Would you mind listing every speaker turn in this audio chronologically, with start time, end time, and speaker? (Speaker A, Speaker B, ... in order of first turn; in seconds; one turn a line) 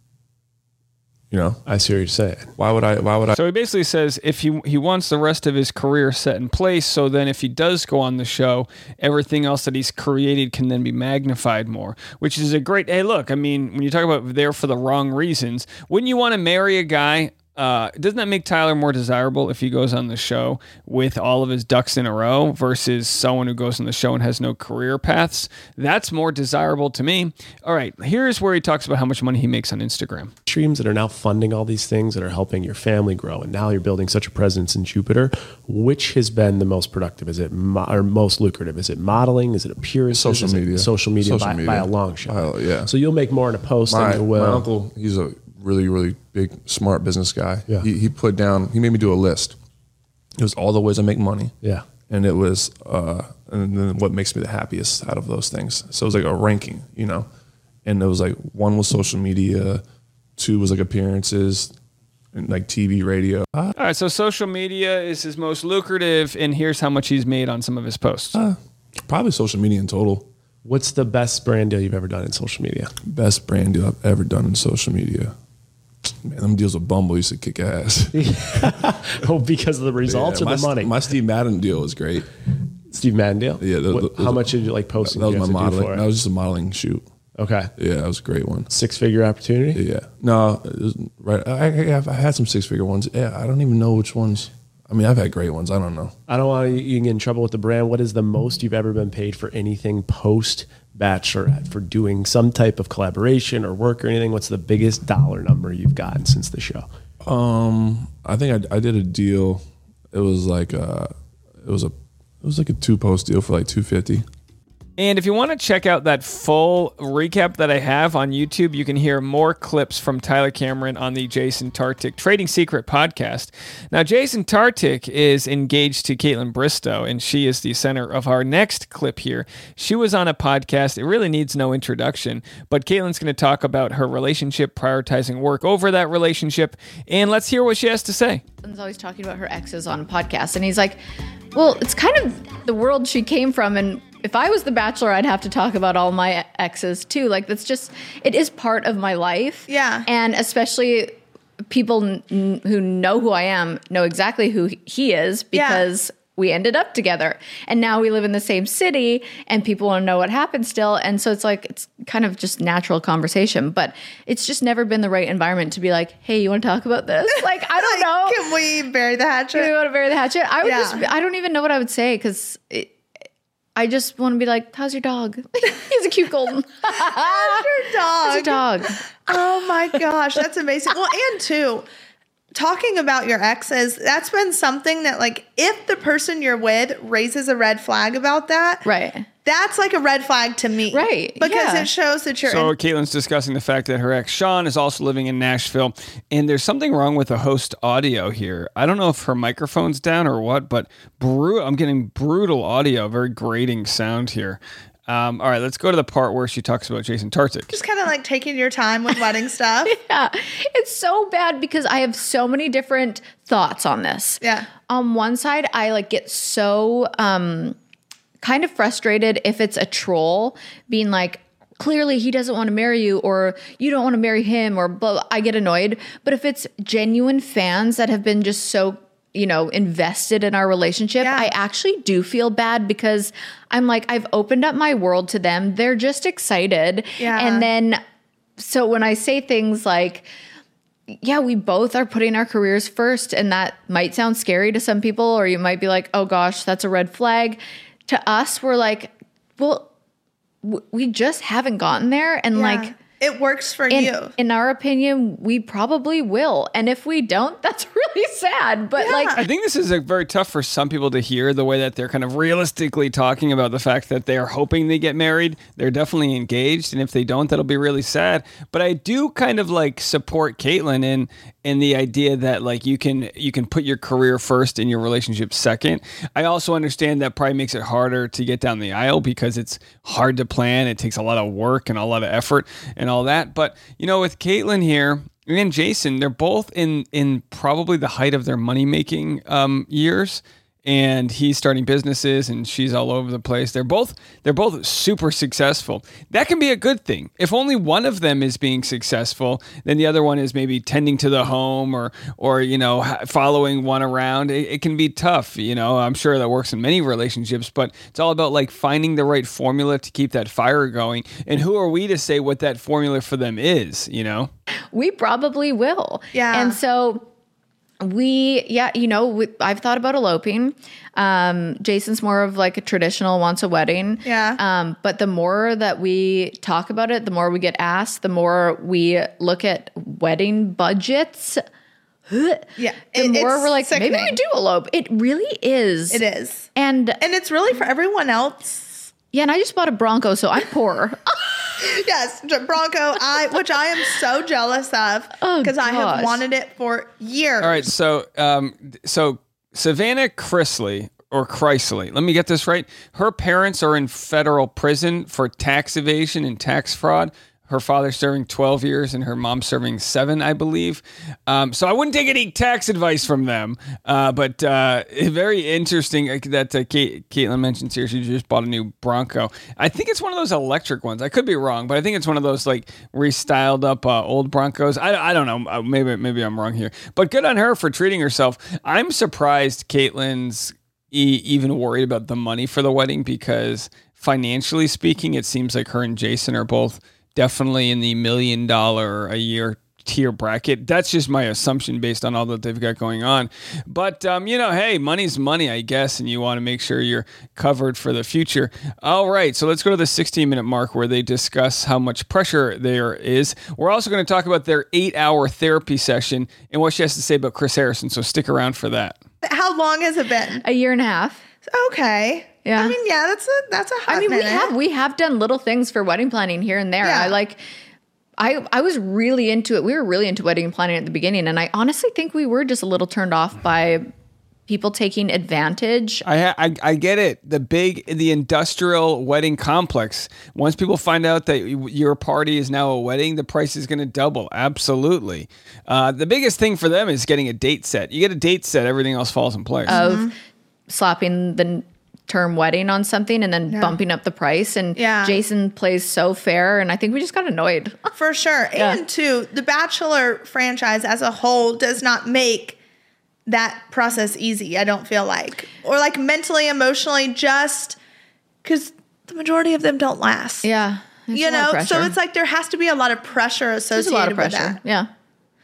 Speaker A: 1.3-1.6
Speaker B: 1.6-2.5
Speaker A: 2.6-3.4
Speaker C: 3.3-30.3
Speaker B: 30.5-44.7
Speaker A: 40.1-42.9
Speaker A: 43.9-49.6
Speaker A: 50.4-57.3
Speaker A: 57.9-59.8
Speaker A: 60.4-61.7
Speaker A: 62.3-63.7
Speaker C: 63.8-68.4
Speaker A: 68.3-70.3
Speaker B: 70.6-72.9
Speaker A: 73.0-75.3
Speaker A: 76.2-78.8
Speaker B: 78.1-80.9
Speaker A: 80.0-82.3
Speaker B: 82.9-86.0
Speaker A: 83.6-87.1
Speaker B: 87.4-87.7
Speaker A: 87.8-88.7
Speaker B: 88.7-89.8
Speaker A: 89.7-96.2
Speaker B: 96.3-106.9
Speaker A: 107.2-114.2
Speaker C: 115.0-138.4
Speaker D: 138.6-141.0
Speaker D: 141.5-151.2
Speaker E: 149.7-150.1
Speaker D: 151.7-168.4
Speaker E: 155.5-155.9
Speaker E: 167.8-169.7
Speaker D: 169.5-172.9
Speaker E: 170.6-171.1
Speaker D: 173.8-178.9
Speaker E: 177.0-178.7
Speaker E: 179.2-181.9
Speaker E: 182.5-188.8
Speaker D: 188.8-189.3
Speaker E: 189.4-192.7
Speaker D: 190.9-191.9
Speaker C: 192.4-207.8
Speaker E: 207.7-210.0
Speaker D: 209.9-217.8
Speaker E: 214.4-214.7
Speaker D: 218.4-238.0
Speaker E: 231.2-231.5
Speaker E: 237.2-237.7
Speaker D: 238.6-240.3
Speaker D: 241.2-249.9
Speaker D: 250.6-252.9
Speaker E: 252.5-254.3
Speaker D: 253.9-259.4
Speaker E: 259.0-259.4
Speaker C: 259.4-314.5
Speaker D: 314.9-317.3
Speaker E: 316.3-316.8
Speaker D: 318.0-331.6
Speaker E: 324.2-324.6
Speaker D: 332.3-336.2
Speaker E: 332.8-334.4
Speaker E: 336.1-336.7
Speaker D: 336.8-337.2
Speaker E: 337.2-339.1
Speaker D: 339.3-341.2
Speaker E: 341.8-347.9
Speaker D: 345.4-346.4
Speaker C: 347.6-409.2
Speaker E: 409.4-410.6
Speaker D: 410.6-411.4
Speaker E: 411.7-414.8
Speaker D: 412.6-412.9
Speaker D: 414.1-417.6
Speaker E: 417.0-417.4
Speaker D: 418.4-424.1
Speaker D: 424.7-426.2
Speaker C: 426.2-440.0
Speaker E: 439.9-440.3
Speaker D: 439.9-440.3
Speaker D: 440.9-448.1
Speaker E: 443.7-444.0
Speaker E: 444.9-445.4
Speaker E: 448.1-452.8
Speaker D: 448.8-449.0
Speaker E: 453.5-458.0
Speaker E: 458.6-460.7
Speaker D: 460.6-462.1
Speaker E: 461.3-464.8
Speaker D: 463.9-465.1